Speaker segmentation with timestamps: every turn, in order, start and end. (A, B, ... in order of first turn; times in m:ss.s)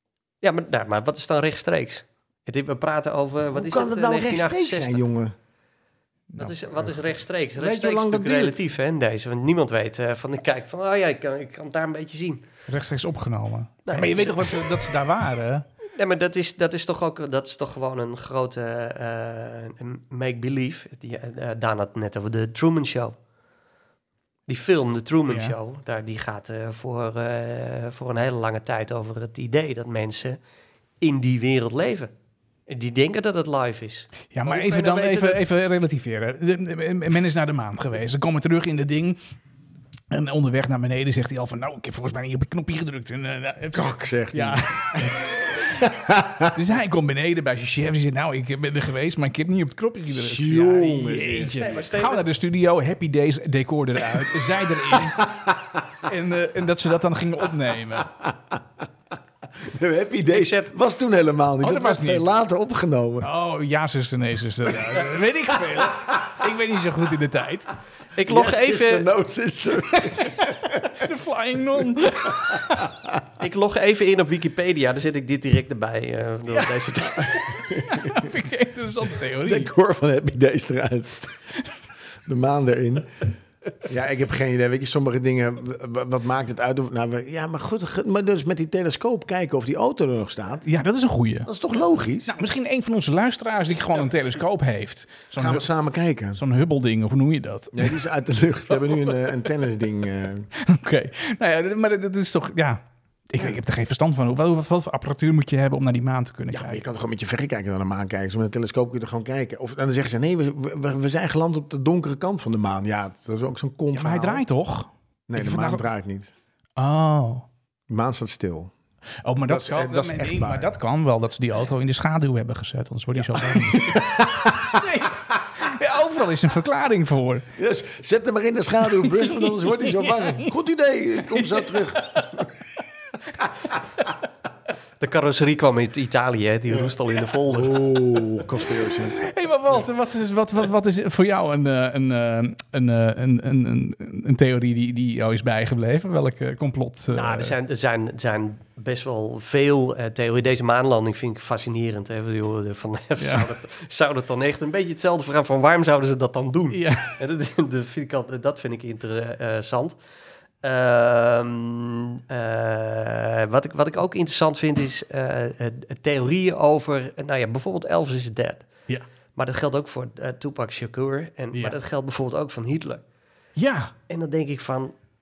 0:00.4-0:05.0 A
0:03.5-0:05.4 B
0:06.4-0:12.4 A
0:07.6-0:08.6 B
0:12.7-0:15.7 C
0:13.9-0:14.7 A
0:16.0-0:23.2 A
0:24.5-0:30.4 A
0:25.3-0:25.6 C
0:31.0-0:32.1 A
0:32.7-0:35.4 A
0:34.3-0:39.2 C
0:40.1-0:45.8 C
0:43.7-0:46.6 B
0:46.5-0:55.3 C
0:50.1-0:51.5 B
0:51.5-0:52.3 A
0:54.9-0:55.8 B
0:56.0-0:58.1 C
0:58.1-0:58.6 B
0:59.6-1:03.3 B
1:00.3-1:00.7 A
1:01.6-1:02.3 C
1:03.2-1:07.7 C
1:05.7-1:06.2 B
1:08.2-1:09.1 A
1:08.3-1:11.0 B
1:10.1-1:12.9 C
1:12.3-1:13.1 B
1:13.4-1:17.6 A
1:17.3-1:19.7 C
1:17.7-1:18.3 B
1:19.4-1:21.3 B
1:22.2-1:23.2 B
1:23.8-1:30.7 B
1:30.6-1:31.5 C
1:31.5-1:32.4 B
1:32.3-1:35.7 C
1:35.4-1:36.4 B
1:36.3-1:38.0 C
1:37.7-1:40.5 B
1:38.9-1:39.1 C
1:40.6-1:46.8 C
1:46.5-1:54.4 B
1:53.9-1:55.9 C
1:55.3-1:56.3 B
1:56.8-1:57.5 C
1:57.9-1:58.7 B
1:59.2-2:07.5 C
1:59.5-2:00.7 B
2:03.1-2:05.0 B
2:07.6-2:12.5 B
2:09.0-2:10.5 C
2:11.3-2:12.4 C
2:15.0-2:17.9 A
2:16.7-2:19.2 B
2:19.2-2:27.5 C
2:27.1-2:40.0 A
2:33.2-2:33.5 C
2:36.7-2:37.2 C
2:40.6-2:48.7 A
2:49.4-2:53.0 A
2:53.6-2:53.9 C
2:54.1-2:54.9 A